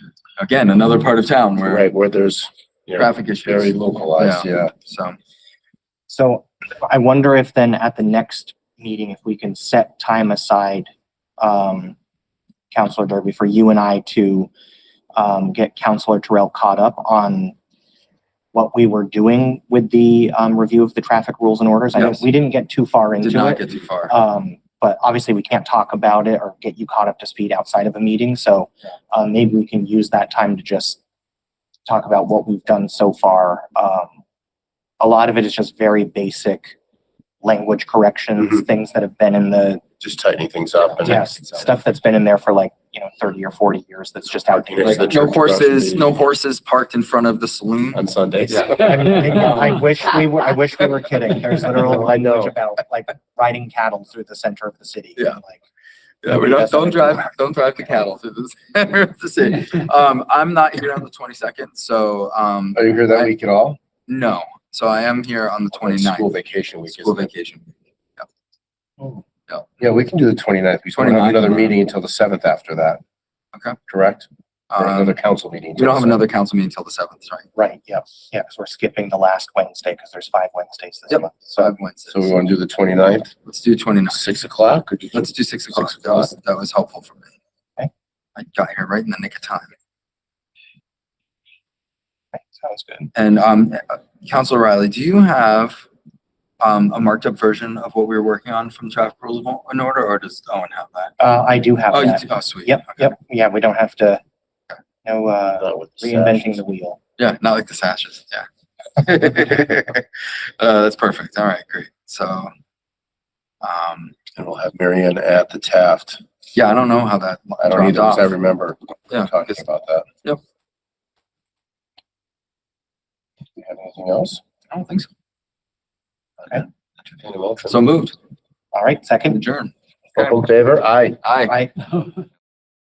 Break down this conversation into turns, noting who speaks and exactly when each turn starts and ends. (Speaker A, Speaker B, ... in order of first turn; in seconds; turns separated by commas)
Speaker A: 0.4-1.9, Speaker B: 1.6-4.7, Speaker A: 3.0-5.2, Speaker C: 6.1-10.9, Speaker C: 11.4-11.9, Speaker C: 12.7-14.5, Speaker C: 15.2-17.5, Speaker C: 18.5-31.0, Speaker A: 22.0-22.3, Speaker A: 23.2-24.1, Speaker C: 31.9-34.2, Speaker C: 35.0-36.7, Speaker C: 37.4-39.8, Speaker B: 40.0-41.3, Speaker C: 41.0-45.2, Speaker B: 44.5-46.2, Speaker A: 44.8-48.7, Speaker B: 47.9-49.5, Speaker C: 48.7-55.6, Speaker B: 51.8-52.6, Speaker A: 56.2-63.3, Speaker C: 56.3-58.1, Speaker B: 62.8-63.8, Speaker A: 64.1-66.3, Speaker B: 65.7-67.3, Speaker A: 66.9-68.3, Speaker B: 69.8-73.0, Speaker A: 71.0-71.7, Speaker B: 73.9-76.2, Speaker A: 74.7-75.2, Speaker A: 75.8-77.5, Speaker C: 77.6-81.8, Speaker A: 81.1-82.3, Speaker B: 82.1-83.3, Speaker A: 83.4-84.2, Speaker B: 84.1-86.3, Speaker A: 85.1-87.3, Speaker A: 88.4-89.7, Speaker C: 92.3-93.1, Speaker A: 93.2-95.8, Speaker A: 96.6-101.2, Speaker C: 101.2-104.2, Speaker A: 101.9-103.1, Speaker C: 105.0-107.0, Speaker B: 105.6-106.6, Speaker A: 107.2-110.1, Speaker A: 110.6-112.5, Speaker A: 113.6-114.2, Speaker B: 114.4-116.2, Speaker A: 116.5-118.3, Speaker B: 117.6-120.1, Speaker A: 119.1-119.6, Speaker B: 123.6-124.4, Speaker A: 124.7-125.1, Speaker B: 126.5-127.8, Speaker A: 127.7-128.2, Speaker C: 128.7-129.4, Speaker A: 129.3-129.7, Speaker B: 130.2-131.2, Speaker A: 131.2-131.6, Speaker C: 131.5-131.7